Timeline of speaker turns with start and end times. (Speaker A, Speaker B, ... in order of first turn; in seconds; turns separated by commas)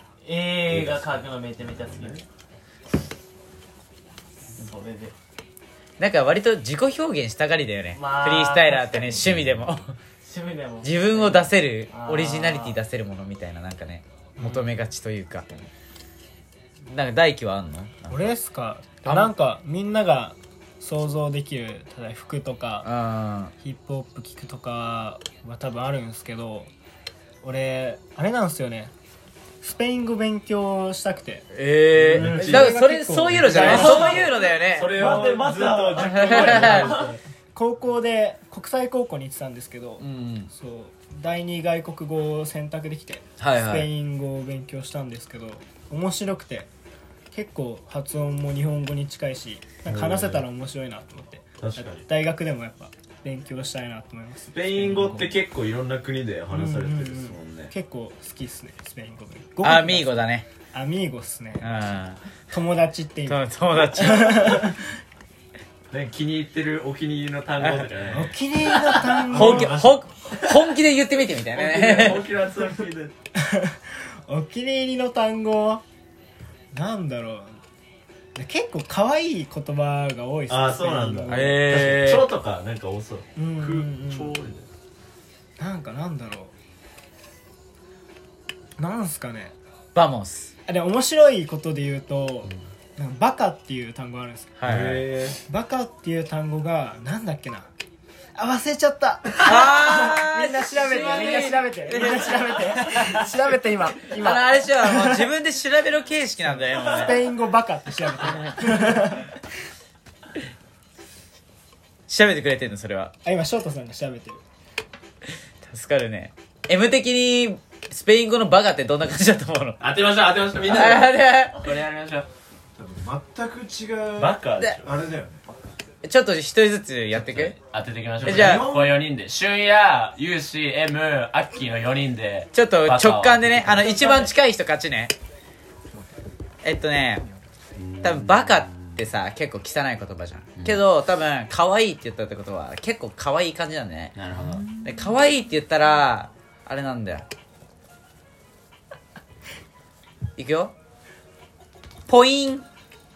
Speaker A: 0.2-2.2, Speaker B: 0.7-2.2, Speaker A: 4.6-5.1, Speaker C: 6.0-9.9, Speaker A: 7.9-9.2, Speaker B: 9.2-9.7, Speaker A: 10.2-12.8, Speaker C: 10.8-15.5, Speaker C: 16.9-18.3, Speaker D: 18.1-22.9, Speaker C: 19.0-19.3, Speaker C: 22.8-23.5, Speaker D: 23.6-26.7, Speaker D: 27.4-28.9, Speaker D: 29.6-31.5, Speaker C: 31.5-35.1, Speaker D: 32.0-34.3, Speaker B: 32.0-32.7, Speaker E: 33.5-37.1, Speaker B: 33.5-34.2, Speaker A: 33.6-37.1, Speaker B: 34.8-35.6, Speaker C: 35.9-37.0, Speaker D: 37.5-46.7, Speaker C: 40.0-40.5, Speaker C: 43.4-43.9, Speaker D: 47.3-55.3, Speaker B: 49.9-50.4, Speaker B: 51.6-52.0, Speaker B: 54.5-57.7, Speaker D: 56.5-60.1, Speaker C: 59.6-60.5, Speaker D: 60.7-61.9, Speaker C: 61.6-62.2, Speaker D: 62.5-64.8, Speaker C: 63.3-64.7, Speaker B: 65.9-68.3, Speaker C: 67.6-67.9, Speaker D: 68.1-69.7, Speaker B: 68.9-69.4, Speaker E: 69.2-70.0, Speaker C: 69.3-72.3, Speaker B: 71.5-73.1, Speaker D: 73.4-75.8, Speaker D: 76.7-77.6, Speaker D: 78.3-81.7, Speaker B: 80.5-84.7, Speaker C: 81.3-82.3, Speaker D: 83.3-84.4, Speaker D: 85.6-86.5, Speaker D: 88.8-89.5, Speaker C: 89.9-90.5, Speaker D: 90.7-94.6, Speaker C: 94.6-95.1, Speaker B: 94.7-95.4, Speaker D: 95.5-97.7, Speaker D: 98.3-105.3, Speaker C: 99.4-103.3, Speaker C: 104.1-107.3, Speaker D: 106.5-109.3, Speaker C: 112.1-113.1, Speaker D: 113.2-114.4, Speaker C: 115.6-119.8, Speaker B: 119.8-122.3, Speaker C: 120.6-121.7, Speaker E: 122.8-125.4, Speaker B: 124.2-124.9, Speaker C: 126.0-127.5, Speaker B: 127.1-134.2, Speaker C: 128.2-128.7, Speaker E: 128.2-129.0, Speaker C: 132.5-135.1, Speaker C: 136.6-137.2, Speaker B: 137.7-139.0, Speaker C: 138.0-144.2, Speaker B: 144.1-144.8, Speaker C: 144.8-147.2, Speaker C: 150.4-150.7, Speaker C: 152.1-152.6